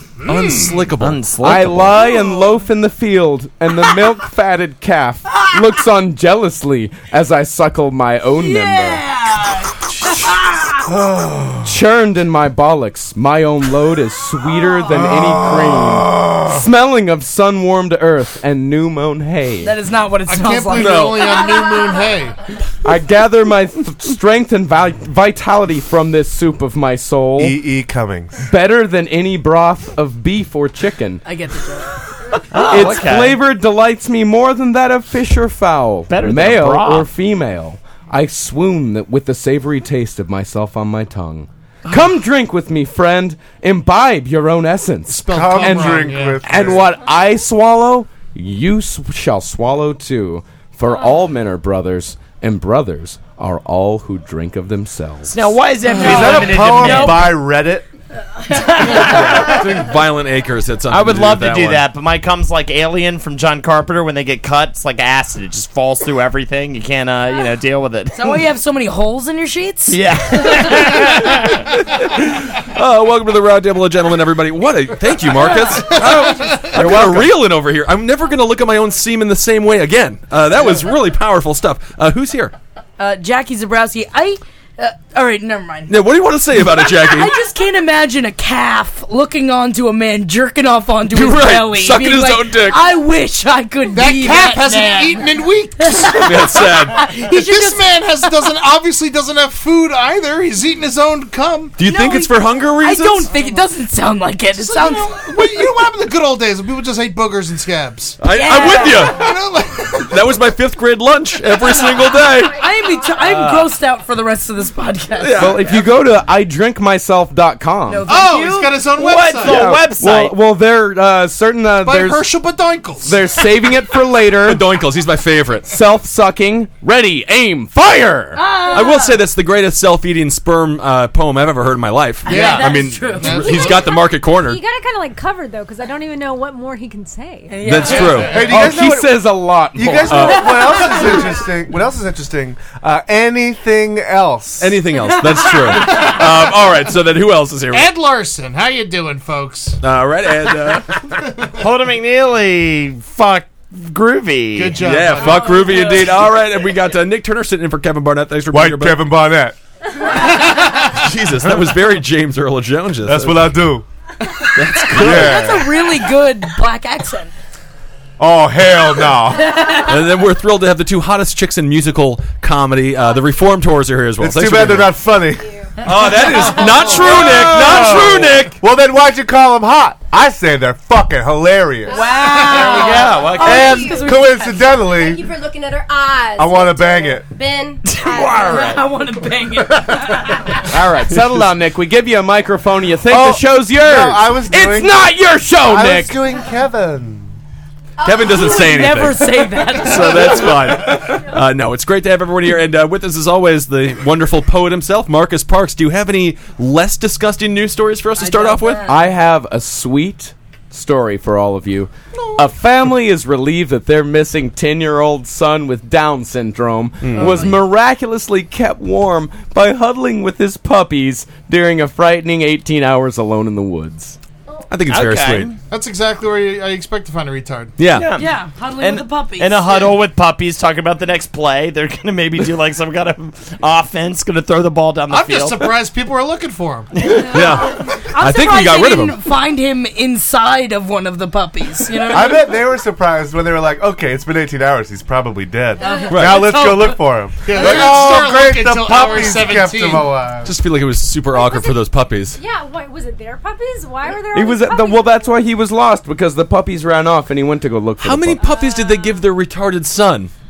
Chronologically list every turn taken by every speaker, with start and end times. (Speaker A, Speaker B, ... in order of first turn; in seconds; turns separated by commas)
Speaker A: 0.3-1.2, Speaker B: 1.0-2.0, Speaker C: 1.4-9.0, Speaker D: 2.1-2.4, Speaker D: 8.4-10.7, Speaker E: 10.8-11.7, Speaker C: 11.6-19.8, Speaker E: 14.9-16.6, Speaker D: 19.6-22.0, Speaker F: 20.3-22.4, Speaker A: 20.7-21.5, Speaker C: 22.9-27.6, Speaker E: 27.4-28.4, Speaker C: 28.4-31.2, Speaker D: 31.2-32.0, Speaker B: 32.5-33.4, Speaker C: 32.6-55.5, Speaker B: 36.1-37.1, Speaker F: 45.1-46.5, Speaker E: 45.3-46.9, Speaker B: 55.3-57.3, Speaker D: 55.9-57.4, Speaker E: 56.0-57.9, Speaker B: 58.5-59.6, Speaker A: 58.8-61.9, Speaker B: 60.9-68.4, Speaker D: 68.1-70.8, Speaker B: 69.9-71.7, Speaker A: 70.9-82.5, Speaker D: 75.4-76.1, Speaker F: 75.9-76.8, Speaker D: 83.0-85.9, Speaker A: 85.9-87.3, Speaker D: 86.5-98.5, Speaker A: 91.1-93.0, Speaker F: 93.9-96.3, Speaker A: 96.2-97.1, Speaker F: 97.1-101.8, Speaker A: 101.8-103.3, Speaker D: 101.8-105.2, Speaker F: 104.6-108.2, Speaker A: 108.2-109.4, Speaker D: 108.2-109.2, Speaker F: 108.7-110.1, Speaker A: 109.9-112.7, Speaker D: 112.5-115.8, Speaker A: 113.3-113.6, Speaker B: 113.3-113.7, Speaker A: 115.2-115.8, Speaker C: 115.4-118.0, Speaker D: 117.9-118.9, Speaker F: 118.1-119.8, Speaker B: 119.0-120.3, Speaker C: 119.4-122.3, Speaker F: 121.8-123.2, Speaker C: 123.0-124.7, Speaker A: 124.4-125.7, Speaker C: 125.7-128.4, Speaker D: 128.3-129.3, Speaker A: 128.7-134.6, Speaker D: 132.2-133.8, Speaker F: 132.2-133.9, Speaker G: 133.5-137.6, Speaker D: 137.5-138.4, Speaker A: 137.6-138.4, Speaker F: 137.8-138.7, Speaker E: 138.2-144.8, Speaker C: 138.4-140.3, Speaker A: 140.1-140.8, Speaker G: 140.9-141.3, Speaker A: 144.6-147.9, Speaker F: 145.8-146.3, Speaker F: 147.7-149.8, Speaker A: 149.8-151.2, Speaker B: 151.6-154.8, Speaker F: 154.6-155.7, Speaker A: 154.8-159.0, Speaker D: 155.1-156.3, Speaker E: 158.5-159.6, Speaker A: 160.4-163.6, Speaker E: 163.1-163.8, Speaker A: 164.5-165.5, Speaker E: 164.9-165.8, Speaker D: 164.9-167.3, Speaker E: 168.2-169.8, Speaker A: 169.8-175.0, Speaker E: 174.2-182.1, Speaker H: 175.3-175.7, Speaker A: 175.8-178.6, Speaker B: 177.0-178.5, Speaker H: 181.9-188.8, Speaker D: 181.9-184.7, Speaker B: 182.4-184.0, Speaker E: 183.4-185.3, Speaker E: 186.4-187.3, Speaker B: 187.8-188.8, Speaker D: 188.3-190.5, Speaker C: 190.7-196.2, Speaker E: 193.1-197.3, Speaker H: 198.0-198.9, Speaker A: 198.0-208.9, Speaker D: 198.3-200.6, Speaker D: 208.2-209.1, Speaker C: 208.9-224.2, Speaker A: 217.0-217.6, Speaker D: 217.2-217.5, Speaker A: 224.7-225.5, Speaker B: 224.9-225.6, Speaker F: 225.7-227.8, Speaker A: 227.8-228.1, Speaker B: 227.9-235.7, Speaker D: 228.1-230.0, Speaker F: 235.1-236.9, Speaker B: 236.9-237.3, Speaker A: 237.2-239.2, Speaker D: 237.3-242.6, Speaker E: 242.1-250.5, Speaker D: 245.8-247.0, Speaker G: 245.8-246.1, Speaker A: 246.1-246.7, Speaker F: 247.4-250.1, Speaker A: 250.4-252.4, Speaker G: 251.3-251.8, Speaker G: 252.4-255.4, Speaker C: 254.3-258.5, Speaker A: 258.0-260.3, Speaker G: 258.4-259.3